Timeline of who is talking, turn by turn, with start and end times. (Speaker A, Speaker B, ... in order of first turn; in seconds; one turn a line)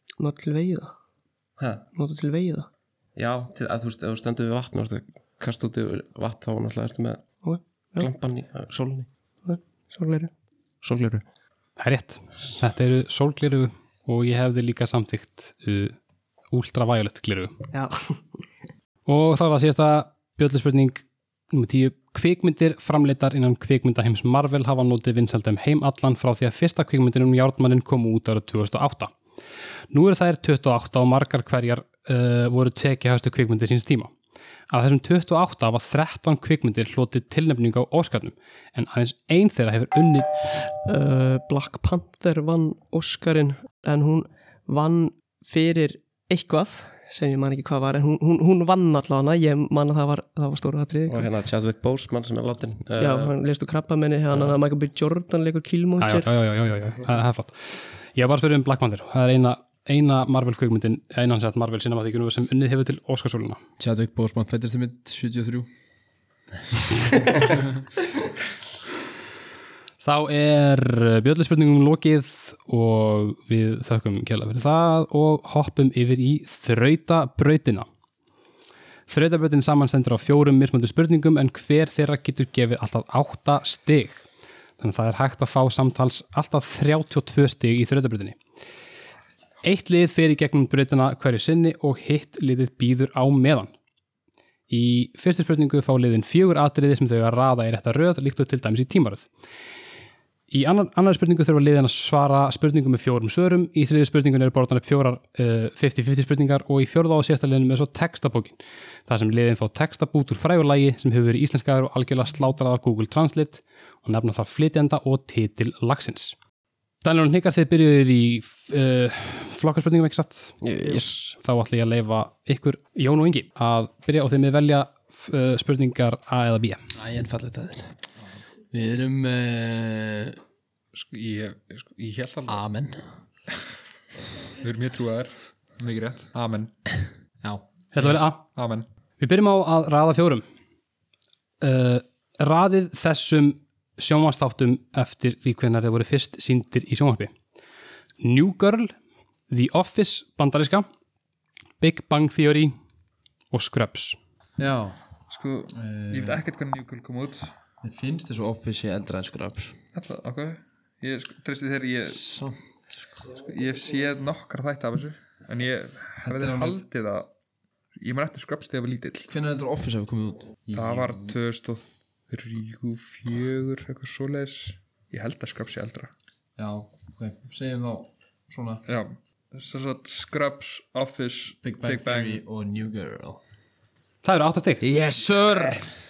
Speaker A: 0.2-0.9
Speaker B: 1.6-1.9
Speaker A: 1.9-2.7
Speaker B: 3.2-7.2
Speaker A: 7.4-8.1
Speaker B: 8.0-9.1
Speaker A: 9.4-10.3
Speaker B: 10.8-11.2
Speaker C: 11.8-16.0
Speaker C: 16.5-17.5
Speaker A: 17.7-18.2
Speaker C: 19.1-29.1
Speaker C: 29.9-34.1
Speaker C: 34.7-40.3
Speaker A: 40.9-51.3
Speaker B: 51.1-53.3
Speaker A: 53.0-56.3
Speaker C: 56.0-63.6
Speaker D: 63.8-65.7
Speaker C: 70.0-77.9
Speaker C: 79.1-84.2
Speaker C: 84.8-88.4
Speaker C: 89.6-93.7
Speaker C: 94.7-99.3
Speaker C: 100.5-116.4
Speaker C: 117.0-126.8
Speaker B: 120.6-121.2
Speaker D: 127.0-128.0
Speaker D: 128.7-130.4
Speaker E: 130.9-132.6
Speaker D: 132.5-133.1
Speaker E: 134.6-136.9
Speaker C: 137.9-138.4
Speaker E: 138.0-138.9
Speaker C: 139.2-140.4
Speaker C: 141.6-147.3
Speaker C: 148.2-148.9
Speaker C: 149.5-150.9
Speaker C: 151.8-152.8
Speaker C: 153.5-154.2
Speaker D: 154.6-155.0
Speaker E: 155.3-157.5
Speaker D: 155.8-156.4
Speaker D: 157.8-159.8
Speaker E: 159.9-162.3
Speaker D: 162.1-162.6
Speaker E: 163.3-167.3
Speaker D: 166.2-166.8
Speaker E: 168.0-169.3
Speaker D: 169.3-171.3
Speaker E: 170.7-176.1
Speaker D: 176.6-178.8
Speaker E: 178.9-182.4
Speaker D: 181.6-183.4
Speaker C: 184.2-184.9
Speaker D: 184.8-185.9